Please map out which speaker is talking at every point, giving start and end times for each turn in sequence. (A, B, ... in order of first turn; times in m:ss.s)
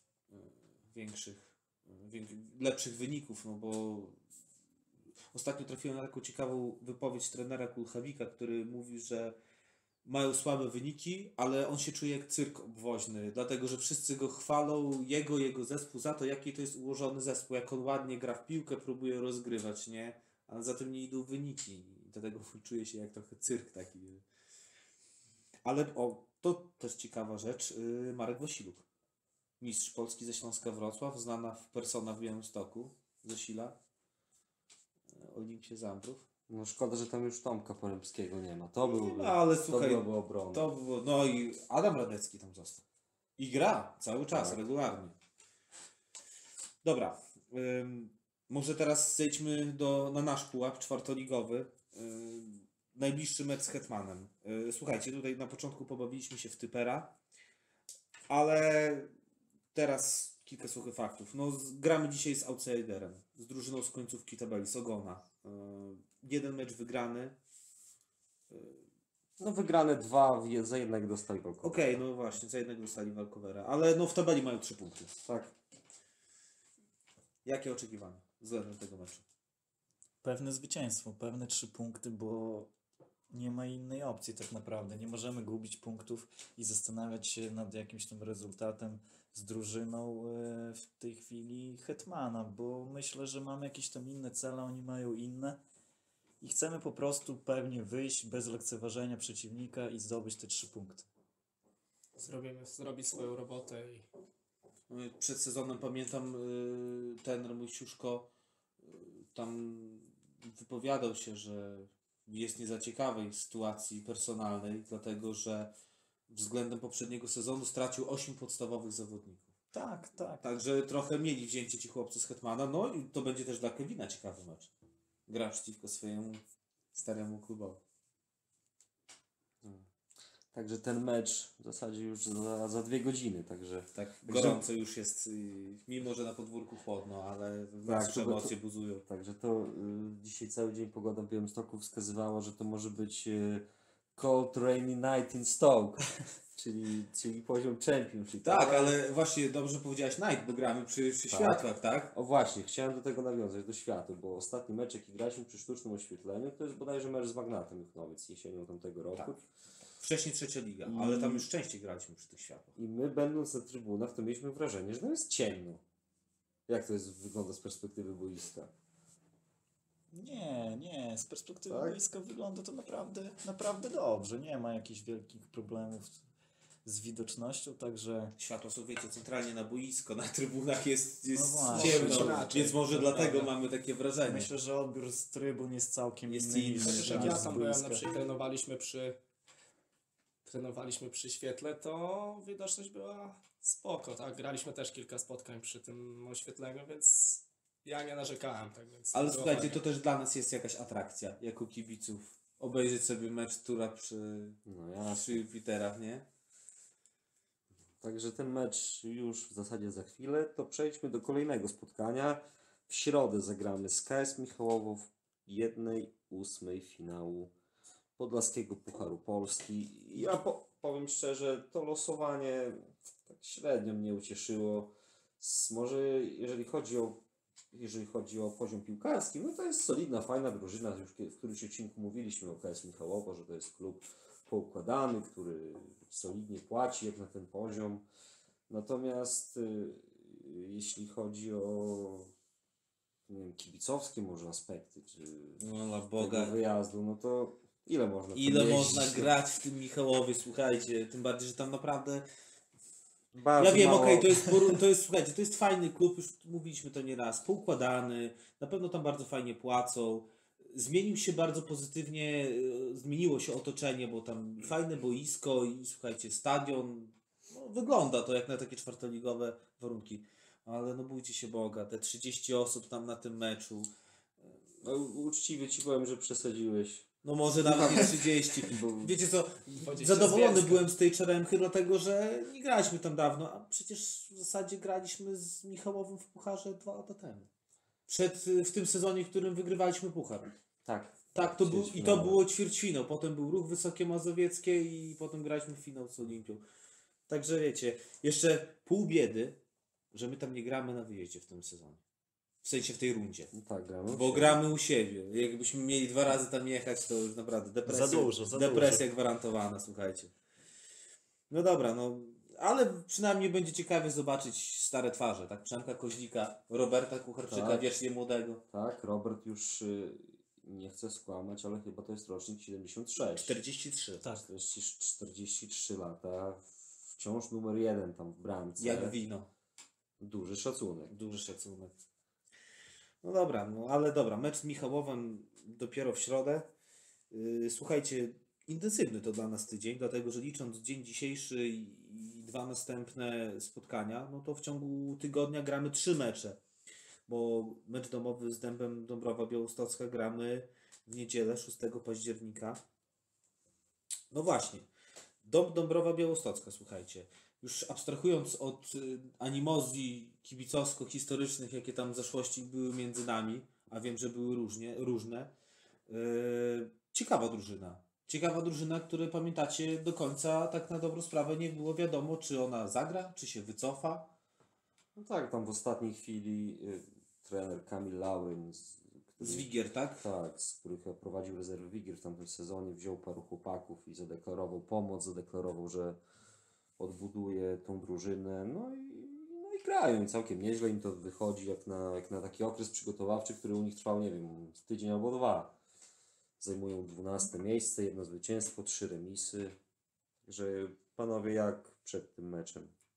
0:00.3-0:04.2 A
0:05.3-0:09.4 A
0:10.1-0:24.2 A
0:25.6-0:28.8 A
0:29.6-0:33.8 A
0:35.1-0:36.3 A
0:36.5-0:40.7 B
0:38.8-0:42.8 A
0:43.4-0:45.2 A
0:44.3-0:44.6 B
0:46.8-0:57.2 A
0:58.3-0:59.1 A
0:59.7-1:07.4 A
1:08.5-1:08.8 A
1:09.4-1:12.0 B
1:11.6-1:15.1 A
1:15.2-1:15.5 B
1:17.4-1:19.2 A
1:20.2-1:22.7 C
1:23.3-1:35.6 C
1:36.4-1:41.1 C
1:42.2-1:44.1 D
1:44.9-1:48.3 A
1:48.8-1:55.7 A
1:56.3-1:59.5 A
1:59.7-2:00.4 C
2:00.4-2:04.7 A
2:05.3-2:06.4 A
2:06.9-2:07.8 A
2:09.6-2:09.9 B
2:10.5-2:14.6 B
2:14.0-2:19.0 A
2:17.8-2:18.5 B
2:19.1-2:23.6 B
2:24.2-2:29.0 B
2:28.4-2:32.1 A
2:31.3-2:39.4 B
2:40.0-2:42.7 A
2:40.9-2:41.5 B
2:42.8-2:45.8 B
2:46.7-2:48.7 B
2:50.1-2:56.2 C
2:51.7-2:52.0 B
2:56.8-2:58.4 C
2:58.4-3:04.5 A
3:01.3-3:02.5 C
3:01.7-3:03.5 D
3:04.2-3:08.1 C
3:06.3-3:07.5 A
3:06.8-3:09.2 D
3:10.4-3:19.8 D
3:19.1-3:26.3 A
3:24.7-3:25.4 B
3:28.0-3:37.5 B
3:38.2-3:47.2 B
3:47.7-3:58.0 B
3:58.7-4:02.3 B
4:03.3-4:05.6 B
4:05.6-4:06.6 A
4:06.2-4:09.3 B
4:08.3-4:12.3 A
4:13.3-4:14.6 B
4:13.6-4:33.9 A
4:34.8-4:39.2 B
4:37.2-4:47.5 A
4:39.8-4:40.9 D
4:48.1-4:50.5 A
4:50.8-4:52.4 B
4:51.3-4:56.6 A
4:57.3-4:59.6 A
5:00.1-5:02.0 A
5:02.6-5:03.5 A
5:03.5-5:04.6 B
5:04.1-5:10.3 A
5:07.9-5:09.0 C
5:11.5-5:18.6 A
5:17.5-5:17.9 B
5:18.7-5:23.6 B
5:23.3-5:24.2 A
5:24.2-5:29.1 B
5:28.8-5:29.5 A
5:30.2-5:31.1 B
5:31.1-5:32.0 A
5:33.2-5:36.7 A
5:37.3-5:46.6 A
5:47.3-5:52.8 A
5:54.3-5:54.9 A
5:55.4-6:05.5 A
6:06.1-6:14.3 A
6:15.2-6:19.7 B
6:19.4-6:20.3 A
6:20.2-6:26.2 B
6:27.0-6:35.8 B
6:36.6-6:39.7 B
6:40.4-6:42.9 B